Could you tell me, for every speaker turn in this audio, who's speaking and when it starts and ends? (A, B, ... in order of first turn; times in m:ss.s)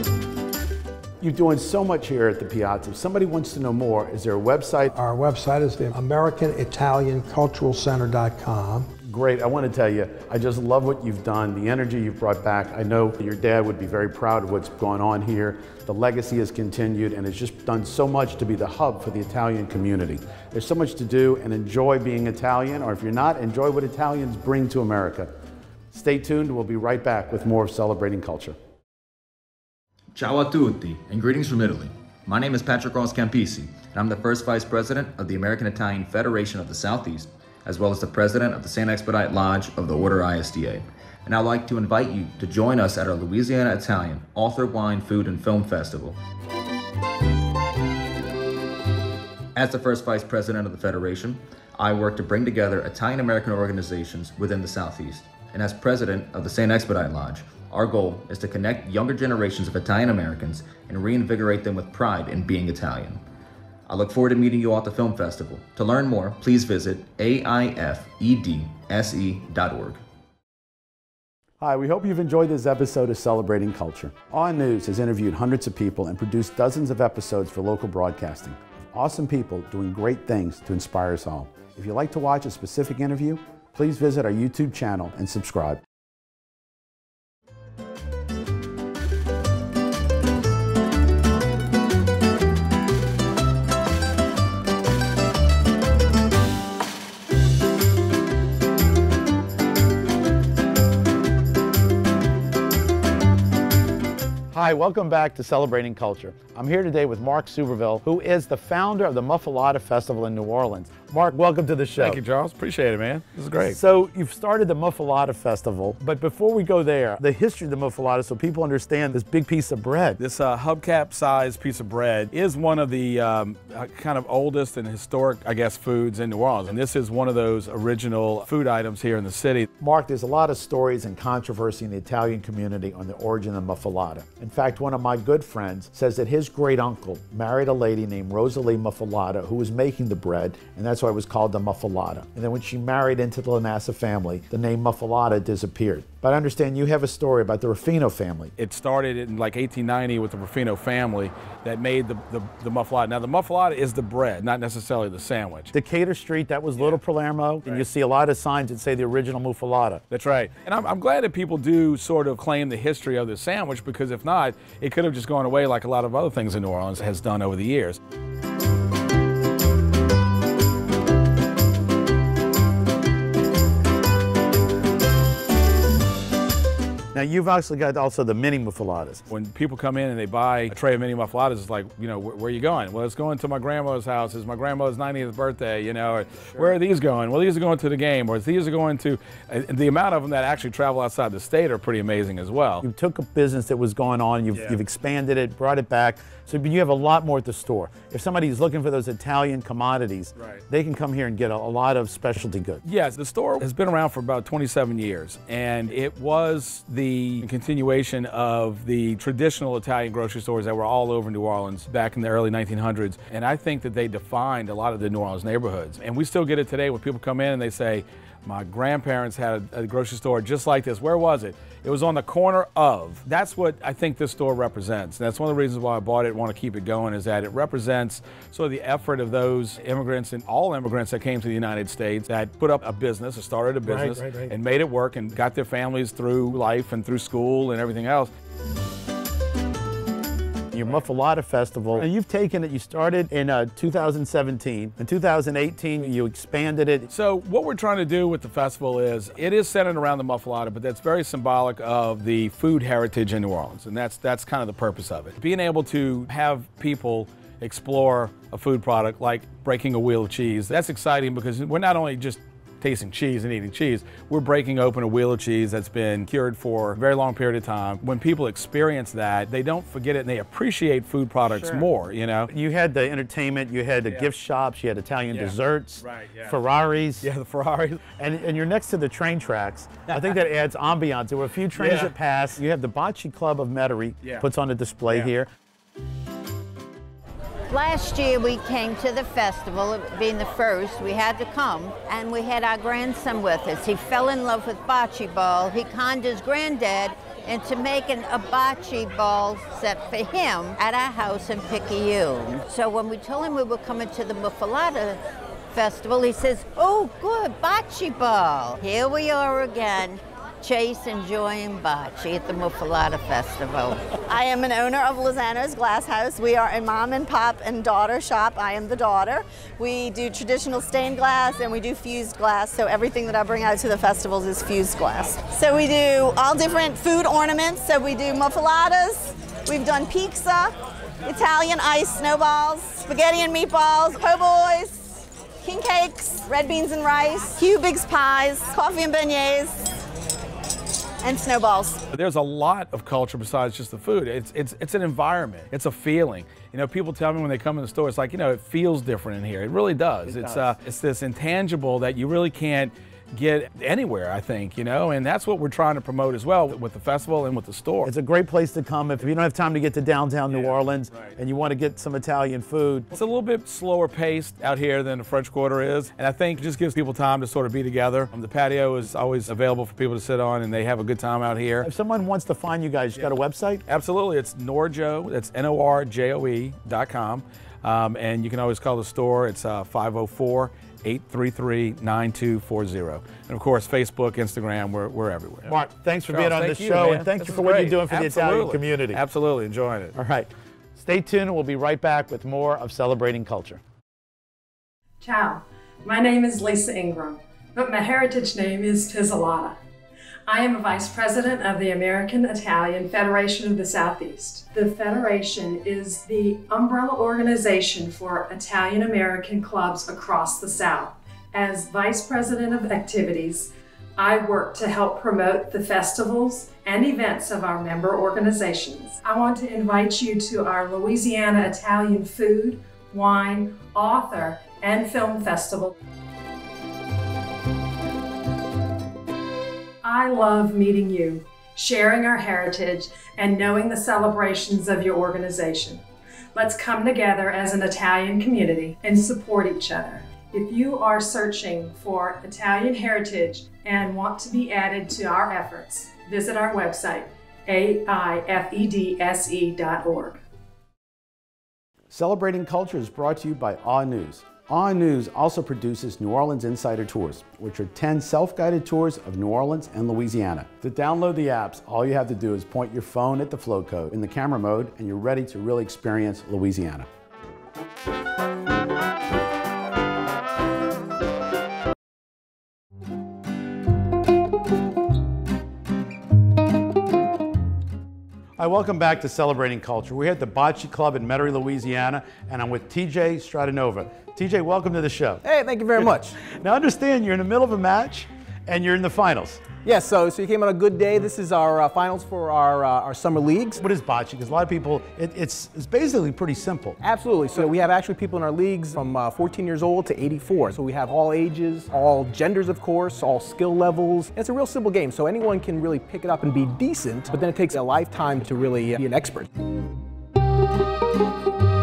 0:01.2-0:04.9 A
0:04.9-0:08.9 B
0:09.0-0:25.3 A
0:25.9-0:28.6 A
0:30.2-0:46.2 C
0:49.6-1:03.2 C
1:03.9-1:10.0 C
1:11.6-1:25.8 A
1:44.5-1:52.2 A
1:52.0-1:53.8 D
1:53.6-2:00.2 A
2:00.2-2:09.7 D
2:09.8-2:28.6 A
2:28.6-2:35.7 D
2:35.7-2:40.0 A
2:40.1-2:48.0 D
2:57.1-2:59.3 A
2:59.3-3:12.8 D
3:12.8-3:22.8 A
3:22.8-3:58.3 D
3:53.8-3:54.6 A
4:00.7-4:07.1 A
4:07.1-4:32.5 D
4:31.5-4:31.9 A
4:32.5-4:37.3 A
4:36.1-4:36.5 D
4:37.2-4:38.0 D
4:38.2-4:45.5 A
4:41.8-4:42.1 D
4:47.7-5:05.2 E
5:05.7-5:14.1 E
5:14.3-5:39.9 F
5:41.2-5:42.0 F
5:42.1-5:58.1 D
5:50.3-5:50.7 A
5:58.0-6:03.1 A
6:03.1-6:11.9 D
6:11.8-6:13.8 A
6:13.9-6:25.8 D
6:25.7-6:29.2 A
6:26.3-6:30.2 D
6:30.2-6:33.8 A
6:35.2-6:39.8 G
6:40.5-7:05.9 G
7:10.0-7:16.0 G
7:16.6-7:30.4 G
7:32.1-7:47.1 A
7:58.6-8:05.4 A
8:05.4-8:06.4 H
8:06.4-8:09.6 A
8:09.8-8:13.8 H
8:13.8-8:17.0 A
8:17.0-8:29.5 H